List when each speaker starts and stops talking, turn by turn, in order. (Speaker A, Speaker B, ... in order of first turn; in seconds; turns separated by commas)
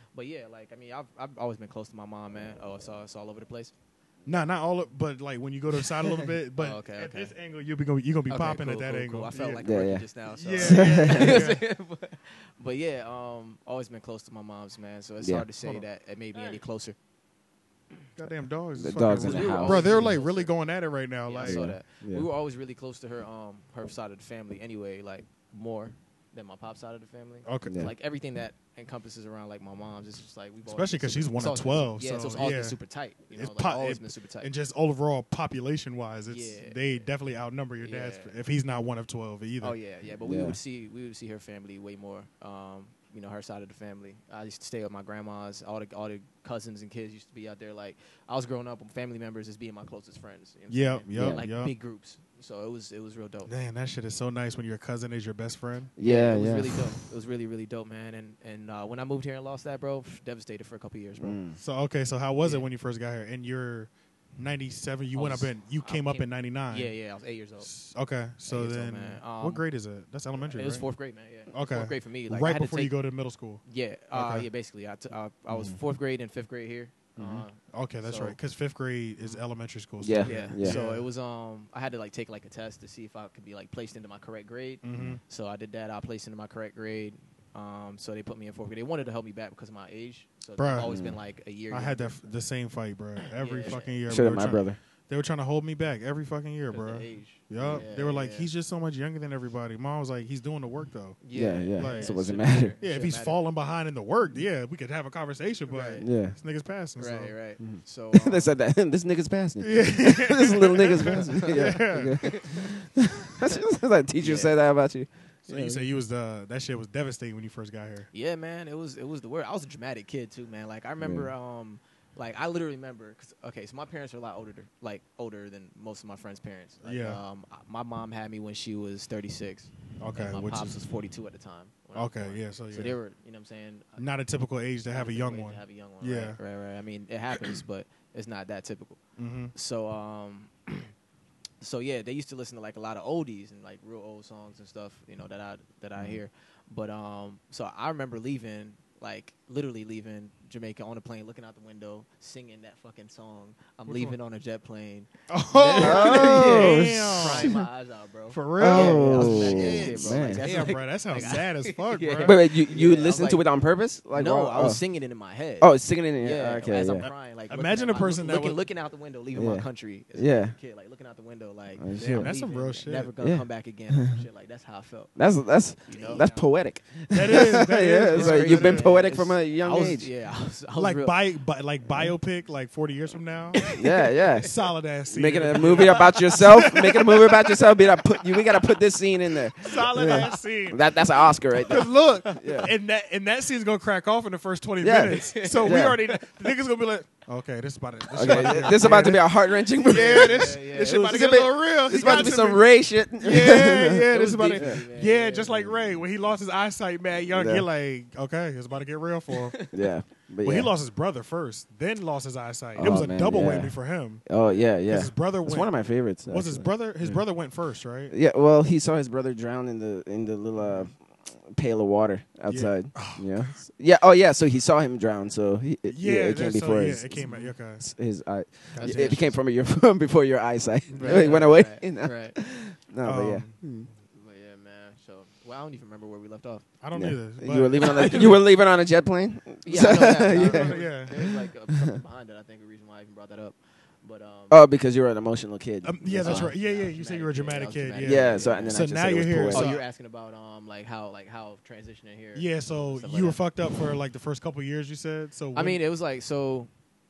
Speaker A: 0.1-3.7, Speaker B: 4.3-9.7, Speaker A: 6.0-7.3, Speaker A: 8.3-17.0, Speaker C: 9.6-10.0, Speaker B: 10.3-11.6, Speaker C: 10.6-11.5, Speaker C: 15.2-15.5, Speaker B: 18.2-21.7, Speaker C: 18.8-20.1, Speaker A: 19.2-20.5, Speaker A: 21.3-34.5, Speaker C: 21.4-22.3, Speaker B: 27.4-27.9, Speaker C: 27.7-27.9, Speaker B: 30.7-32.8, Speaker B: 33.3-39.8, Speaker A: 36.3-36.8, Speaker A: 37.8-38.3, Speaker A: 39.6-53.5, Speaker C: 40.2-40.6, Speaker B: 50.7-51.7, Speaker C: 51.1-51.4, Speaker B: 53.5-55.9, Speaker C: 56.0-56.8, Speaker A: 56.0-61.4, Speaker C: 61.2-61.6, Speaker B: 61.6-66.9, Speaker A: 62.4-62.7, Speaker A: 65.1-67.7, Speaker B: 67.6-70.9, Speaker A: 68.5-69.6, Speaker A: 70.4-72.9, Speaker B: 71.5-74.5, Speaker A: 73.7-78.4, Speaker C: 75.5-75.8, Speaker C: 77.2-77.5, Speaker B: 77.6-81.1, Speaker C: 80.0-80.8, Speaker A: 80.2-92.2, Speaker B: 84.8-85.2, Speaker B: 90.6-90.9, Speaker C: 90.8-91.2, Speaker B: 91.7-101.2, Speaker A: 93.3-94.0, Speaker C: 93.7-94.8, Speaker A: 96.7-98.5, Speaker C: 97.6-97.9, Speaker A: 101.2-103.4, Speaker C: 101.3-102.8, Speaker B: 101.8-102.2, Speaker B: 102.8-107.3, Speaker A: 105.7-106.0, Speaker C: 106.0-106.3, Speaker A: 107.0-108.5, Speaker C: 107.6-115.8, Speaker B: 109.6-112.4, Speaker A: 111.3-112.7, Speaker A: 114.2-114.5, Speaker B: 115.5-118.1, Speaker A: 118.1-134.0, Speaker C: 121.0-121.3, Speaker B: 126.8-127.2, Speaker B: 130.0-130.8, Speaker B: 131.9-133.0, Speaker B: 134.0-136.4, Speaker A: 134.9-139.0, Speaker B: 139.2-139.5, Speaker A: 139.5-140.9, Speaker A: 141.6-163.4, Speaker B: 153.9-154.2, Speaker B: 155.3-157.6, Speaker C: 155.8-157.6, Speaker B: 158.3-162.4, Speaker C: 158.6-160.5, Speaker C: 162.2-164.8, Speaker A: 164.1-175.1, Speaker C: 165.6-167.1, Speaker B: 167.5-168.6, Speaker C: 169.3-170.6, Speaker C: 171.8-172.3, Speaker B: 172.0-173.1, Speaker C: 173.2-174.2, Speaker C: 175.2-180.1, Speaker A: 175.9-176.5, Speaker B: 177.1-179.0, Speaker A: 178.1-181.2, Speaker B: 180.8-183.7, Speaker C: 181.9-182.2, Speaker A: 183.6-184.5, Speaker C: 183.6-184.5, Speaker B: 184.5-187.6, Speaker C: 185.1-192.7, Speaker A: 185.6-187.0, Speaker B: 189.6-190.9, Speaker A: 190.0-190.3, Speaker B: 191.7-199.3, Speaker A: 192.2-192.7, Speaker C: 194.8-196.0, Speaker A: 195.1-196.1, Speaker C: 198.1-204.8, Speaker A: 198.2-199.2, Speaker B: 199.8-209.6, Speaker A: 199.8-201.2, Speaker A: 204.1-205.8, Speaker C: 207.3-207.7, Speaker A: 209.3-209.8, Speaker C: 209.7-210.7, Speaker B: 210.4-214.2, Speaker C: 212.8-213.7, Speaker C: 214.3-217.2, Speaker A: 214.4-214.8, Speaker B: 214.9-218.1, Speaker C: 218.1-233.9, Speaker B: 220.6-220.9, Speaker B: 222.5-223.6, Speaker B: 225.9-227.9, Speaker A: 227.2-227.5, Speaker B: 228.7-229.3, Speaker A: 228.8-229.2, Speaker B: 230.9-231.4, Speaker A: 231.0-232.4, Speaker B: 233.0-233.6, Speaker A: 234.1-236.7, Speaker B: 236.8-238.4, Speaker C: 236.9-241.4, Speaker A: 237.8-238.4, Speaker A: 239.7-244.6, Speaker B: 240.1-241.3, Speaker C: 244.5-246.5, Speaker B: 245.8-249.8, Speaker A: 246.2-248.9, Speaker C: 248.0-249.8, Speaker A: 249.5-253.4, Speaker B: 252.3-255.8, Speaker A: 255.6-256.7